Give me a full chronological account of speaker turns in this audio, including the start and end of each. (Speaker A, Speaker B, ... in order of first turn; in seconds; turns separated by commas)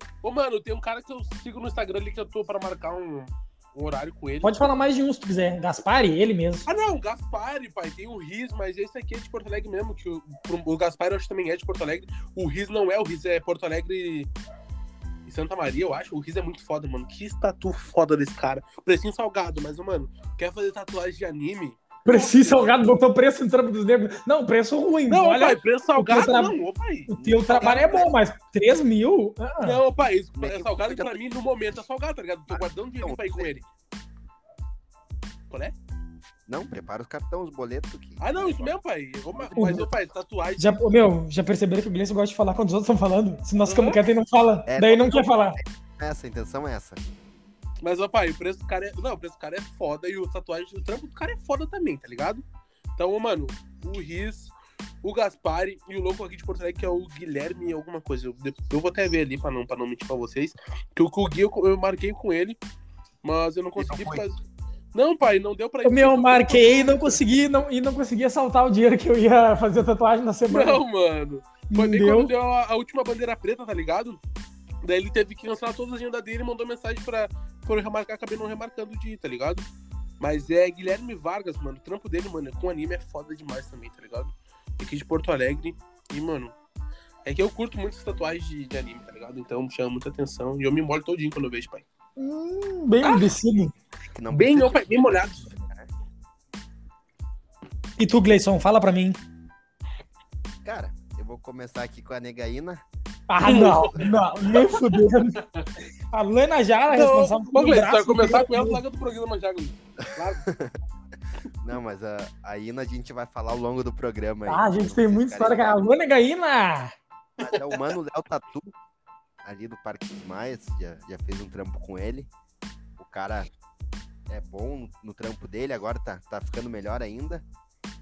Speaker A: 0.2-4.6, Speaker B: 4.4-6.7, Speaker A: 6.7-14.3, Speaker A: 15.2-22.9, Speaker B: 22.0-26.6, Speaker A: 25.1-28.1, Speaker B: 27.1-29.8, Speaker C: 27.2-28.1, Speaker A: 29.6-33.6, Speaker C: 30.3-31.2, Speaker C: 32.5-33.5, Speaker C: 36.5-38.7, Speaker A: 38.2-40.8, Speaker C: 39.3-40.0, Speaker B: 40.6-45.6, Speaker A: 43.6-44.0, Speaker C: 44.7-47.0, Speaker A: 47.8-52.4, Speaker A: 53.0-62.6, Speaker A: 63.2-64.4, Speaker C: 63.8-64.2, Speaker A: 64.9-67.2, Speaker B: 65.8-70.8, Speaker A: 70.5-74.2, Speaker B: 71.7-72.3, Speaker A: 74.8-79.7, Speaker A: 80.2-86.5, Speaker A: 87.2-91.8, Speaker B: 92.2-93.7, Speaker C: 94.0-95.9, Speaker A: 94.3-95.5, Speaker B: 98.0-99.2, Speaker C: 100.6-102.8, Speaker B: 103.3-105.4, Speaker A: 103.4-105.7, Speaker C: 103.6-104.0, Speaker B: 106.1-108.8, Speaker A: 106.9-110.5, Speaker C: 110.5-110.7, Speaker C: 111.6-115.8, Speaker B: 114.5-116.9, Speaker C: 117.4-118.7, Speaker A: 117.5-117.8, Speaker C: 119.4-122.3, Speaker C: 123.0-123.5, Speaker C: 124.3-127.4